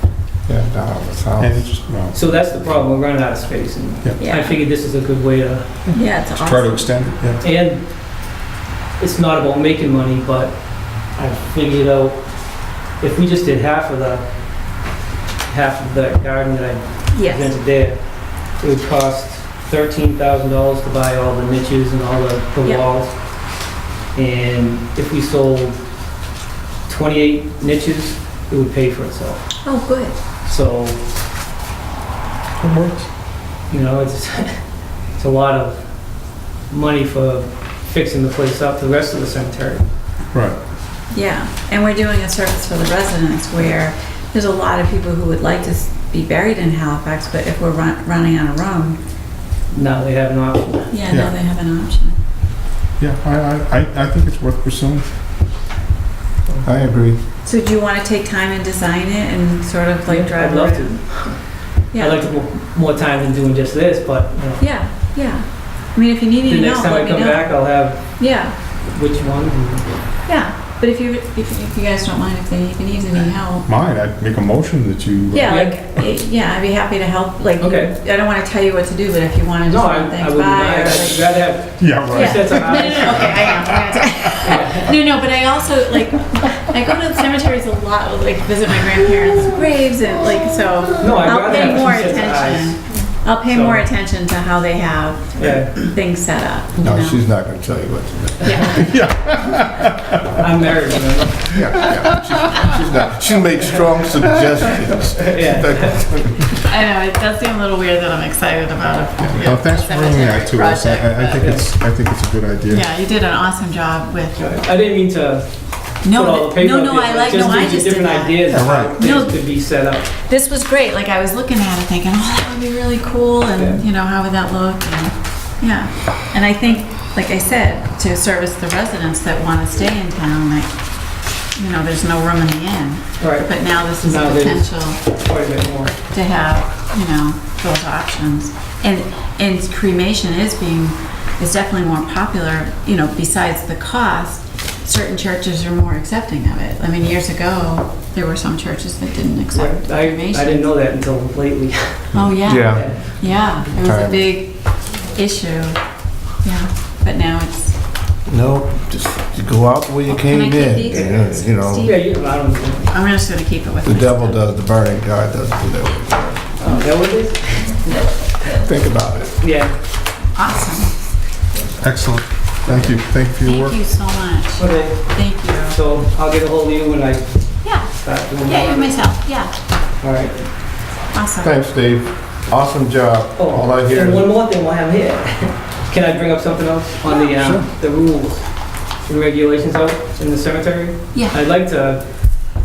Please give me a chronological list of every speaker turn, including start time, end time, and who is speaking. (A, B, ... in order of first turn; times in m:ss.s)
0:00.5-0:01.7 A
0:01.4-0:02.2 B
0:02.1-0:05.7 C
0:04.2-0:04.6 D
0:05.9-0:07.4 B
0:05.9-0:07.0 D
0:07.4-0:07.8 C
0:09.0-0:12.2 C
0:13.0-0:14.2 C
0:15.5-0:18.0 C
0:17.1-0:17.5 D
0:18.6-0:23.1 C
0:24.2-0:25.8 C
0:26.9-0:29.5 C
0:29.6-0:30.2 D
0:30.4-0:31.0 C
0:32.6-0:33.1 B
0:33.7-0:34.6 C
0:35.2-0:35.9 C
0:36.7-0:39.8 C
0:40.3-0:40.6 B
0:41.1-0:49.0 D
0:49.7-0:50.9 C
0:50.9-0:52.2 D
0:53.0-0:55.1 B
0:56.6-0:57.2 A
0:57.4-1:01.0 D
1:00.1-1:01.4 C
1:01.9-1:04.6 C
1:01.9-1:02.3 D
1:04.6-1:07.6 D
1:06.4-1:08.1 C
1:08.2-1:08.6 D
1:08.9-1:09.8 C
1:10.3-1:13.7 D
1:13.7-1:15.7 B
1:15.3-1:21.3 D
1:15.4-1:15.8 C
1:17.6-1:18.0 C
1:19.7-1:23.4 C
1:21.8-1:24.1 B
1:22.1-1:37.2 D
1:24.4-1:25.0 C
1:31.0-1:33.8 C
1:35.4-1:35.8 C
1:36.8-1:38.6 A
1:38.4-1:39.0 D
1:38.7-1:40.2 B
1:40.3-1:41.6 C
1:41.6-1:46.5 A
1:41.8-1:42.6 B
1:45.1-1:46.1 C
1:46.6-1:51.2 D
1:49.2-1:52.9 B
1:51.3-1:51.7 C
1:52.7-1:54.5 D
1:54.4-2:00.1 C
1:56.0-1:59.4 D
1:58.5-1:59.0 B
2:00.1-2:10.7 D
2:03.6-2:03.8 C
2:11.5-2:15.1 D
2:13.2-2:13.5 C
2:14.0-2:16.0 C
2:16.0-2:30.7 D
2:29.5-2:33.3 C
2:32.1-2:35.8 D
2:32.4-2:32.9 A
2:33.8-2:34.3 A
2:36.4-2:37.8 D
2:38.3-2:41.9 A
2:40.1-2:42.0 D
2:41.8-2:42.9 C
2:42.9-2:44.4 D
2:43.8-2:46.5 A
2:46.6-2:48.1 C
2:48.5-2:49.3 A
2:49.4-2:49.7 C
2:50.4-2:50.9 D
2:51.8-2:53.8 B
2:53.4-2:55.8 D
2:54.6-2:55.1 C
2:55.7-2:59.0 C
2:57.6-2:59.5 D
3:00.0-3:00.4 C
3:01.1-3:01.5 D
3:01.4-3:04.3 A
3:03.4-3:08.5 C
3:07.4-3:07.7 B
3:09.0-3:12.0 C